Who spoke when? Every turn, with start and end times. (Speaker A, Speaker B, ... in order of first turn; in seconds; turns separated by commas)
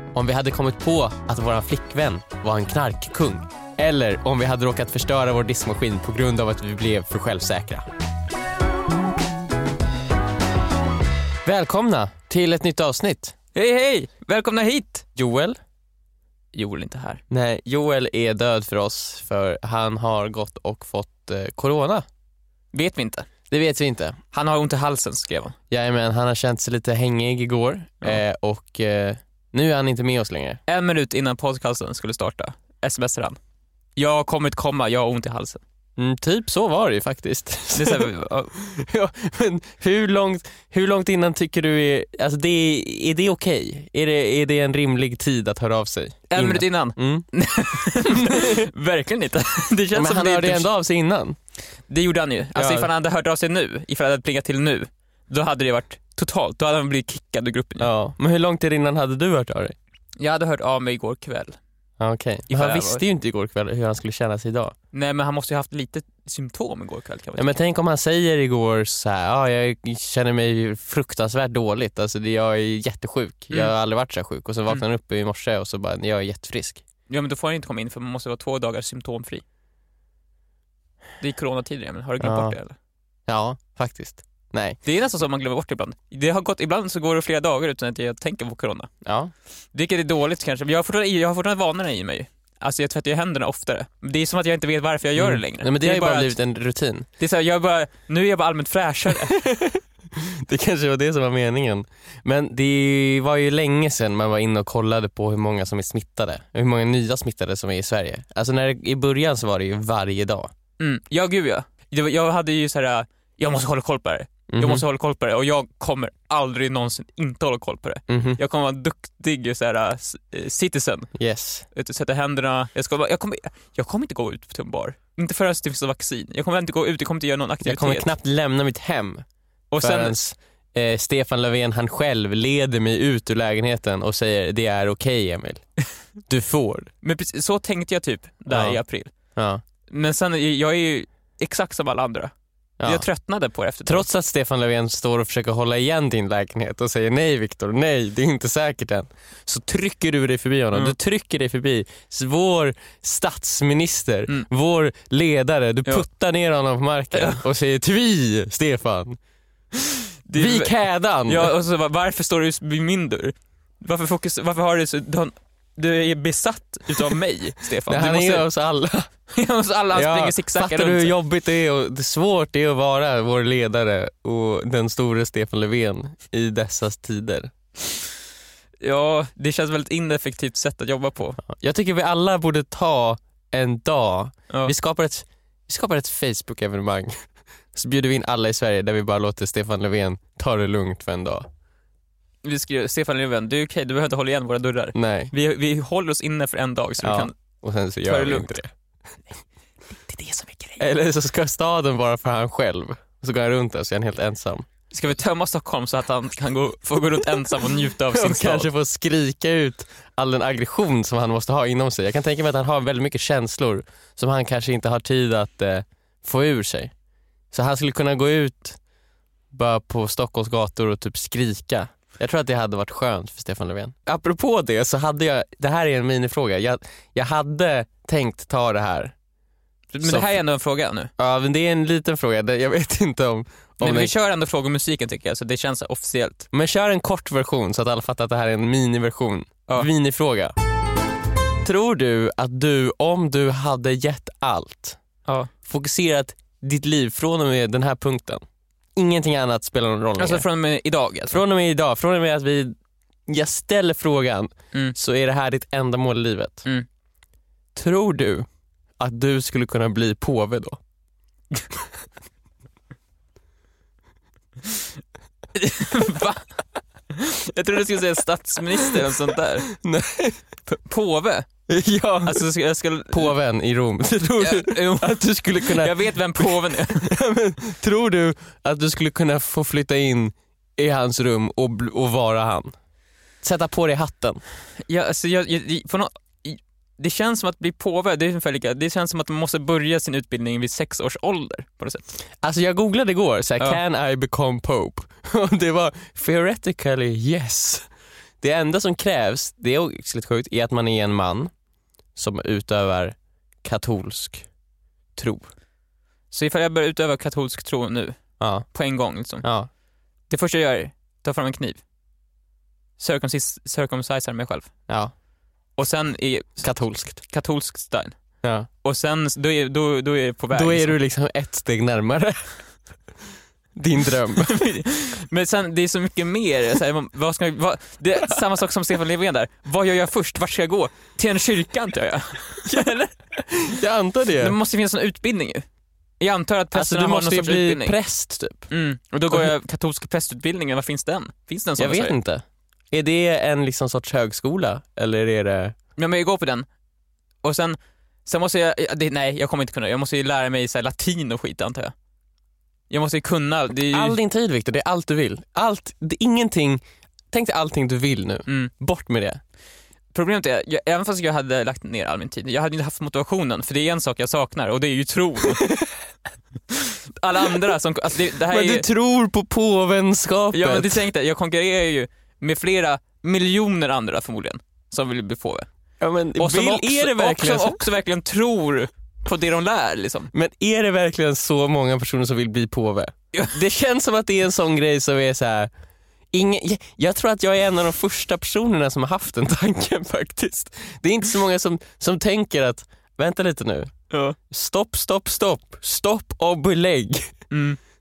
Speaker A: 0.1-7.9, Speaker A: 11.4-13.4, Speaker B: 13.5-15.1, Speaker A: 15.2-15.6, Speaker B: 16.5-17.2, Speaker A: 17.3-22.1, Speaker B: 22.7-23.3, Speaker A: 23.5-24.2, Speaker B: 24.3-25.6, Speaker A: 25.7-30.6, Speaker B: 30.7-33.4, Speaker B: 34.0-35.6, Speaker A: 36.0-47.3, Speaker B: 37.8-38.5, Speaker B: 46.3-50.7, Speaker A: 48.0-48.6, Speaker A: 49.9-51.4, Speaker B: 51.9-57.9, Speaker A: 52.6-52.9, Speaker A: 57.8-59.8, Speaker B: 60.2-61.6, Speaker A: 62.0-64.7, Speaker B: 62.5-63.0, Speaker B: 64.9-67.6, Speaker A: 67.4-76.8, Speaker B: 77.1-79.4, Speaker B: 81.2-82.8, Speaker A: 82.2-82.6, Speaker A: 83.3-84.8, Speaker B: 84.8-88.9, Speaker A: 89.0-89.3, Speaker B: 89.7-96.4, Speaker A: 95.2-97.1, Speaker B: 97.2-99.4, Speaker A: 99.5-110.5, Speaker B: 110.8-121.1, Speaker A: 114.5-114.8, Speaker A: 118.1-118.4, Speaker A: 121.2-121.7, Speaker B: 121.7-128.1, Speaker A: 127.6-129.2, Speaker B: 129.7-130.2, Speaker A: 129.8-135.7, Speaker A: 136.2-136.9, Speaker B: 137.0-139.1, Speaker A: 138.5-138.8, Speaker A: 139.3-139.6, Speaker B: 139.9-142.3, Speaker A: 142.8-143.1, Speaker B: 142.8-144.1, Speaker A: 143.8-159.2, Speaker B: 157.1-157.4, Speaker B: 160.3-168.5, Speaker A: 160.3-161.5, Speaker A: 167.9-169.1, Speaker B: 169.3-171.1, Speaker A: 169.9-177.5, Speaker B: 178.8-181.4, Speaker A: 181.4-191.5, Speaker B: 192.4-197.3, Speaker A: 194.9-195.3, Speaker A: 197.0-198.7, Speaker B: 198.0-198.6, Speaker B: 199.9-200.8, Speaker A: 200.8-204.7, Speaker B: 204.9-208.7, Speaker A: 208.1-216.9, Speaker A: 217.5-218.8, Speaker A: 219.5-229.2, Speaker B: 229.9-231.1, Speaker A: 230.0-230.4, Speaker A: 231.2-234.1, Speaker B: 233.8-236.5, Speaker A: 236.5-240.5, Speaker A: 241.6-245.0, Speaker A: 245.6-248.4, Speaker A: 249.0-250.4, Speaker B: 250.2-251.4, Speaker A: 251.3-252.8, Speaker A: 253.3-256.6, Speaker A: 257.8-258.5, Speaker A: 259.0-260.8, Speaker B: 265.6-266.6, Speaker B: 267.1-269.7, Speaker A: 269.8-270.4, Speaker B: 270.7-271.5, Speaker A: 271.7-272.5, Speaker B: 272.2-273.4, Speaker A: 273.1-282.8, Speaker B: 274.4-277.1, Speaker A: 283.4-284.4, Speaker B: 284.9-292.1, Speaker A: 292.4-297.9, Speaker A: 298.4-301.5, Speaker A: 302.1-304.5, Speaker A: 305.2-305.5, Speaker B: 306.3-309.5, Speaker A: 308.4-308.7, Speaker A: 309.4-309.7, Speaker B: 310.3-311.8, Speaker B: 313.0-314.8, Speaker A: 314.9-315.1, Speaker B: 315.8-321.0, Speaker A: 316.6-317.2, Speaker A: 318.4-318.7, Speaker A: 320.5-322.9, Speaker A: 323.8-324.6, Speaker B: 324.4-333.4, Speaker A: 333.5-334.6, Speaker B: 334.4-335.6, Speaker B: 336.2-337.9, Speaker A: 336.7-338.7, Speaker B: 338.7-342.1, Speaker A: 339.3-339.5, Speaker A: 341.8-345.8, Speaker B: 346.0-346.7, Speaker B: 347.4-351.9, Speaker B: 352.9-354.2, Speaker A: 353.9-359.4, Speaker B: 360.1-365.7, Speaker B: 366.7-368.9, Speaker A: 368.5-371.0, Speaker B: 370.5-375.7, Speaker A: 376.0-377.8, Speaker B: 376.4-380.3, Speaker A: 380.3-385.7, Speaker A: 386.3-393.9, Speaker B: 394.1-394.4, Speaker A: 394.5-397.4, Speaker B: 397.5-397.8